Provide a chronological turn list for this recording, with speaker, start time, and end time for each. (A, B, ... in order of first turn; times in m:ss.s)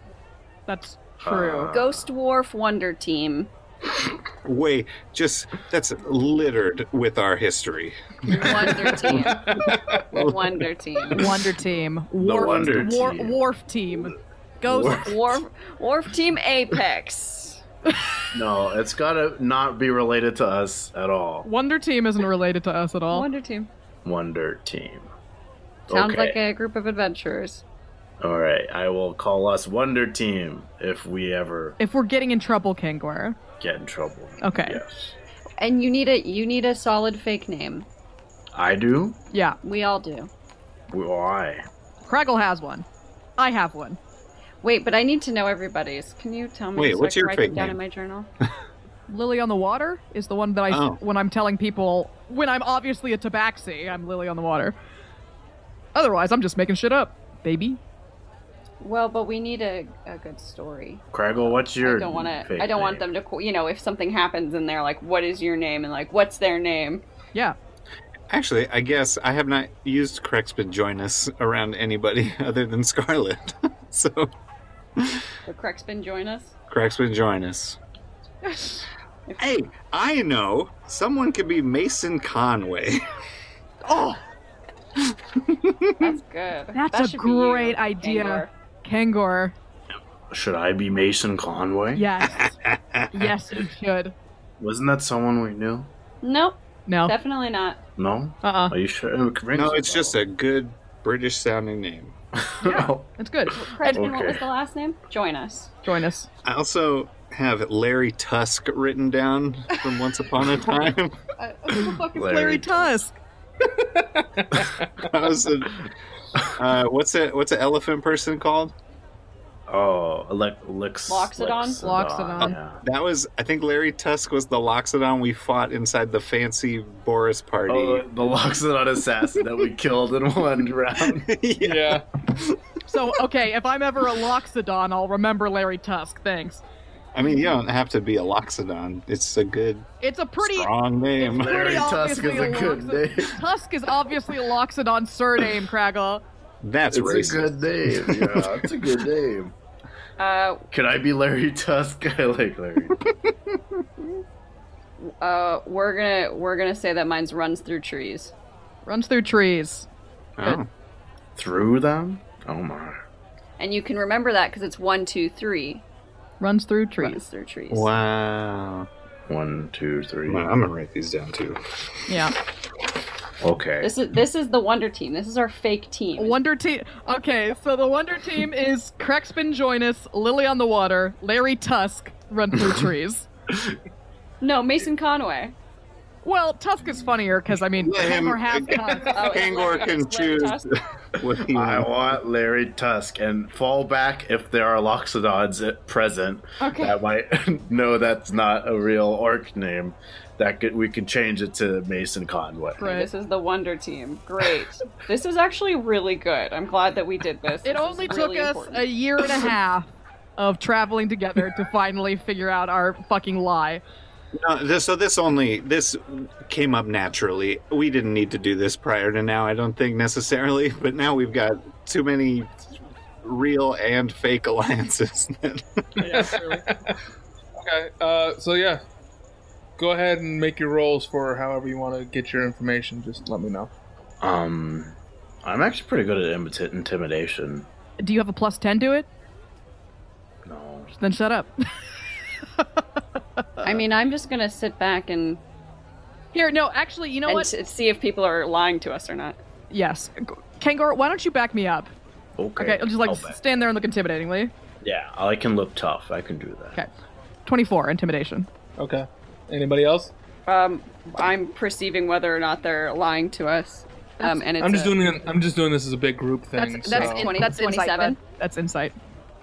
0:00.7-0:01.7 A
0:01.2-0:02.0 B
0:01.7-0:03.5 C
0:04.4-0:10.5 D
0:08.3-0:11.3 C
0:09.5-0:10.0 E
0:11.1-0:15.1 A
0:12.2-0:13.4 B
0:14.7-0:15.3 B
0:14.9-0:17.6 C
0:18.3-0:21.5 B
0:21.4-0:23.2 A
0:23.1-0:23.7 C
0:24.0-0:25.1 B
0:25.9-0:26.4 B
0:25.9-0:27.6 C
0:28.2-0:31.8 B
0:31.8-0:33.4 A
0:33.6-0:35.2 B
0:34.4-0:34.8 A
0:35.6-0:37.9 C
0:38.5-0:39.2 B
0:39.3-0:39.6 A
0:39.6-0:40.3 C
0:40.9-0:41.6 B
0:42.0-0:42.8 A
0:43.4-0:44.0 A
0:44.6-0:48.3 C
0:46.7-0:47.8 D
0:49.1-0:54.7 A
0:50.7-0:51.0 D
0:55.9-0:57.8 A
0:58.8-1:07.0 C
1:01.1-1:03.1 B
1:08.3-1:14.3 D
1:15.0-1:15.2 D
1:15.4-1:16.5 C
1:16.7-1:17.8 D
1:18.4-1:18.8 A
1:19.4-1:23.0 D
1:23.8-1:24.2 A
1:25.0-1:25.9 D
1:26.0-1:28.5 C
1:26.7-1:29.5 A
1:29.9-1:32.1 B
1:31.9-1:32.5 A
1:32.2-1:33.3 D
1:33.1-1:34.1 A
1:34.6-1:35.9 B
1:36.2-1:37.8 C
1:36.9-1:37.1 A
1:38.0-1:40.2 B
1:38.4-1:38.7 A
1:39.5-1:42.1 D
1:42.4-1:43.1 B
1:42.6-1:44.0 A
1:43.5-1:45.7 C
1:43.9-1:44.4 B
1:45.8-1:46.3 A
1:46.4-1:51.2 D
1:51.4-1:52.0 C
1:51.7-1:53.2 A
1:52.1-1:53.0 B
1:53.6-1:54.9 E
1:55.0-1:55.8 D
1:56.5-1:58.7 D
1:59.7-2:02.8 B
2:01.1-2:01.8 C
2:01.8-2:02.5 A
2:02.4-2:08.0 D
2:07.7-2:11.3 B
2:11.1-2:12.6 D
2:11.6-2:12.0 E
2:12.9-2:16.6 A
2:17.1-2:19.9 D
2:20.0-2:26.2 A
2:20.4-2:21.9 D
2:21.2-2:23.4 B
2:26.6-2:28.7 D
2:26.9-2:29.5 B
2:30.2-2:30.6 C
2:30.7-2:33.0 B
2:35.0-2:38.3 C
2:38.8-2:39.9 A
2:40.4-2:40.7 D
2:41.4-2:43.0 B
2:43.6-2:45.8 C
2:46.4-2:47.2 A
2:47.0-2:47.9 C
2:47.7-2:48.9 D
2:49.3-2:50.5 B
2:50.3-2:51.6 D
2:52.1-2:52.3 A
2:53.4-2:53.9 B
2:53.8-2:56.4 C
2:56.2-3:03.3 A
3:04.4-3:05.5 C
3:06.2-3:09.4 A
3:07.8-3:12.2 D
3:09.1-3:10.7 C
3:11.4-3:22.8 B
3:16.6-3:17.0 C
3:22.8-3:23.1 A
3:22.8-3:28.8 C
3:27.6-3:33.8 A
3:34.3-3:42.5 D
3:43.2-3:45.8 D
3:46.0-3:46.9 E
3:47.6-3:48.8 E
3:49.8-3:53.7 E
3:54.2-3:57.7 B
3:58.0-3:59.1 A
4:00.4-4:00.9 B
4:01.0-4:01.5 A
4:03.6-4:05.4 C
4:06.3-4:07.5 A
4:07.2-4:09.4 C
4:09.7-4:11.9 A
4:12.4-4:13.4 B
4:12.6-4:14.5 A
4:14.8-4:16.8 B
4:17.4-4:18.5 A
4:18.8-4:20.1 E
4:20.5-4:25.0 C
4:24.2-4:24.4 A
4:24.6-4:27.3 E
4:26.6-4:28.9 A
4:26.9-4:28.2 C